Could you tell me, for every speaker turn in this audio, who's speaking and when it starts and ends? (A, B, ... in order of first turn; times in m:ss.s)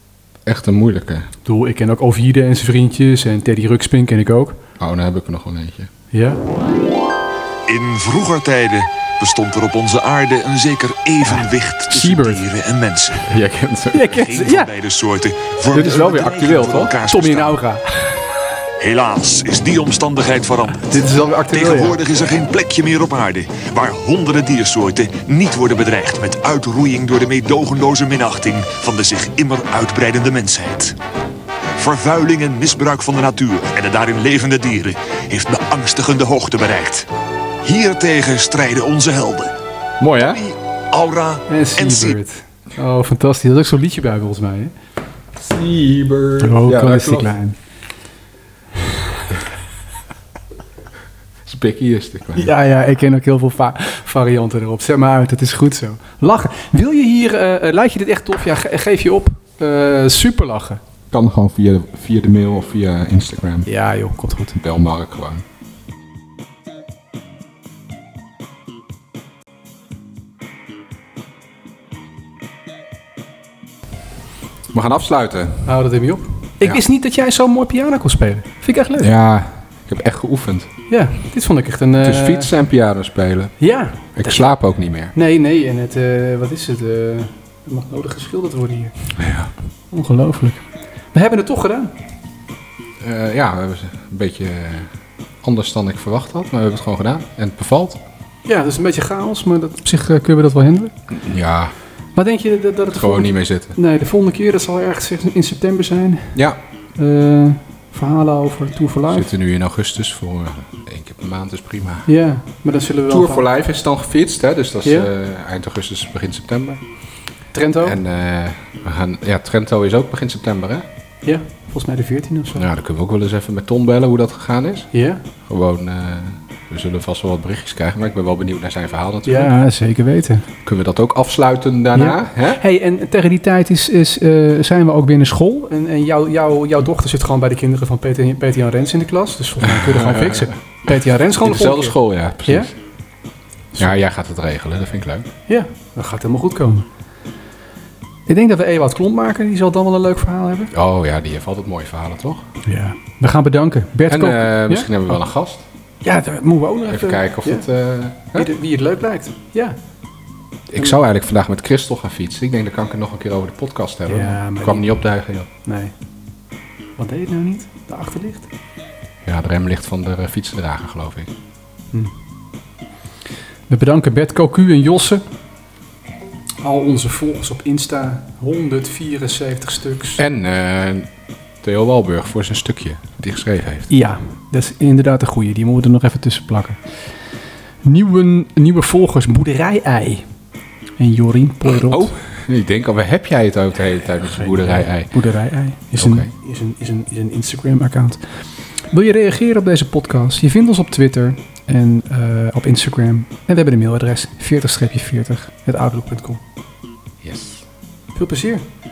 0:00.4-0:01.3 A
0:01.4-0:04.6 B
0:04.8-0:05.9 A
0:06.1-0:06.4 B
0:07.7-0:13.2 C
0:11.9-0:12.4 B
0:12.0-0:12.3 A
0:13.2-0:14.1 A
0:13.9-0:14.7 B
0:14.1-0:17.6 C
0:15.7-0:16.9 A
0:15.8-0:18.1 B
0:18.8-0:30.9 C
0:20.9-0:22.0 B
0:31.8-0:37.1 C
0:37.6-0:39.5 C
0:40.0-0:40.4 A
0:40.3-0:42.2 C
0:41.5-0:44.7 B
0:45.4-0:47.3 A
0:46.4-0:47.6 B
0:51.4-0:52.5 A
0:52.3-1:00.8 B
1:01.1-1:03.7 A
1:03.6-1:04.6 B
1:04.5-1:05.4 A
1:14.7-1:15.7 A
1:15.6-1:19.1 B
1:19.0-1:20.7 A
1:20.9-1:22.5 B
1:22.0-1:23.6 A
1:23.6-1:24.5 B
1:24.1-1:25.1 A
1:25.1-1:29.0 B
1:29.2-1:29.5 A
1:29.9-1:31.9 B
1:33.0-1:34.9 A
1:35.4-1:38.0 A
1:38.4-1:40.9 B
1:41.1-1:41.7 A
1:42.1-1:46.4 B
1:42.9-1:43.7 A
1:47.0-1:49.3 B
1:49.1-1:52.1 A
1:52.1-1:53.5 B
1:53.1-1:56.8 A
1:54.8-1:55.1 B
1:57.5-1:58.0 B
1:57.8-2:00.8 A
2:01.2-2:02.6 B
2:02.6-2:04.9 A
2:04.9-2:05.2 B
2:05.5-2:09.5 A
2:09.2-2:10.4 B
2:10.6-2:12.6 A
2:11.9-2:22.7 B
2:19.6-2:20.5 A
2:21.4-2:22.7 A
2:23.8-2:25.3 A
2:25.5-2:26.9 B
2:28.3-2:30.7 B
2:30.7-2:32.4 A
2:32.6-2:34.9 B
2:34.1-2:35.6 A
2:36.0-2:37.7 B
2:36.9-2:38.5 A
2:38.3-2:39.8 B
2:40.7-2:45.5 A
2:44.1-2:45.0 B
2:45.6-2:45.9 B
2:47.0-2:48.5 B
2:49.2-2:51.3 A
2:53.7-2:55.2 B
2:56.6-3:00.2 B
3:00.2-3:01.1 A
3:01.6-3:03.9 A
3:03.9-3:06.8 B
3:07.8-3:10.2 B
3:11.0-3:12.1 B
3:11.6-3:15.1 A
3:14.3-3:18.2 B
3:16.0-3:16.3 A
3:18.9-3:26.4 B
3:27.2-3:27.6 A
3:28.1-3:28.6 B